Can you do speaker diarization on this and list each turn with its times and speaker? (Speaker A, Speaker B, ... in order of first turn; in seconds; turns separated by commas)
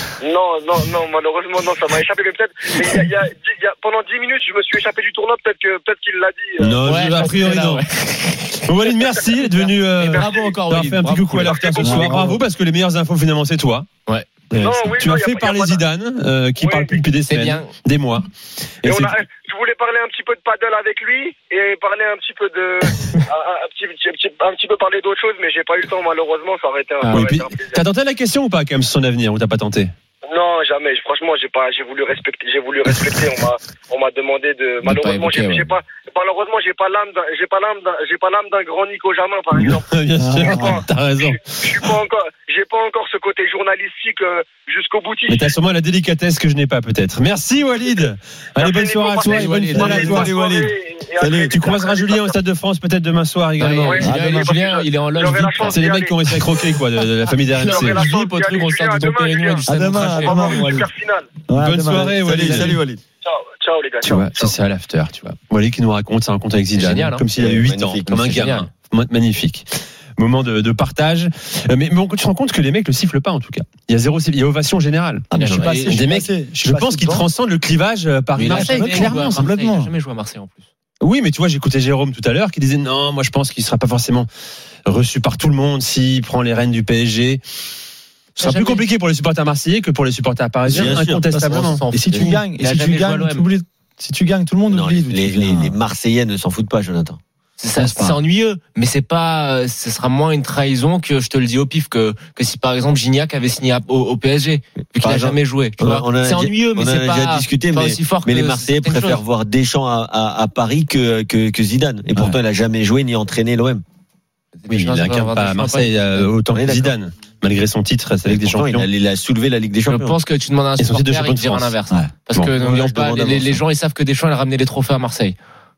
Speaker A: 0.2-6.8, Speaker B: 6.6-7.0, Speaker C: 6.6-7.8, Speaker D: 6.8-8.4, Speaker C: 8.6-13.9, Speaker A: 8.8-10.5, Speaker D: 10.0-11.6, Speaker A: 11.4-12.1, Speaker E: 11.8-12.4, Speaker A: 14.6-15.8, Speaker C: 14.8-18.3, Speaker A: 16.6-17.0, Speaker D: 17.2-17.7, Speaker C: 18.8-19.2, Speaker A: 18.8-27.9, Speaker D: 27.0-27.3, Speaker C: 27.1-29.9, Speaker A: 30.2-45.5, Speaker D: 34.8-35.7, Speaker C: 39.5-41.9, Speaker E: 40.2-40.8, Speaker C: 45.3-50.3, Speaker A: 48.6-52.3, Speaker D: 49.2-50.2, Speaker B: 49.7-51.5, Speaker C: 51.5-54.1, Speaker D: 53.6-55.8, Speaker A: 53.8-56.1, Speaker E: 54.0-54.5, Speaker C: 55.7-58.0, Speaker A: 57.6-61.3, Speaker D: 57.7-60.8, Speaker E: 59.6-60.9, Speaker E: 61.5-62.7, Speaker C: 61.5-62.8, Speaker B: 62.1-63.0, Speaker A: 63.2-64.5, Speaker C: 64.0-69.7, Speaker D: 66.7-67.2, Speaker B: 67.4-68.1, Speaker D: 68.0-68.7, Speaker C: 70.2-75.3, Speaker E: 75.3-77.3, Speaker D: 75.3-76.0, Speaker B: 75.4-75.7, Speaker C: 75.8-79.5, Speaker D: 78.3-80.7, Speaker E: 78.4-79.9, Speaker C: 81.0-84.3, Speaker C: 84.8-87.4, Speaker D: 88.4-88.8, Speaker C: 88.4-91.8, Speaker B: 90.7-91.3, Speaker E: 90.7-95.8, Speaker D: 91.5-93.5, Speaker B: 94.7-97.2, Speaker D: 97.6-109.2, Speaker E: 97.8-98.2, Speaker B: 105.0-113.8, Speaker D: 114.6-116.3, Speaker C: 114.7-118.9, Speaker B: 116.5-116.9, Speaker B: 118.2-120.2, Speaker D: 119.9-125.3, Speaker C: 120.8-121.7, Speaker B: 122.5-123.6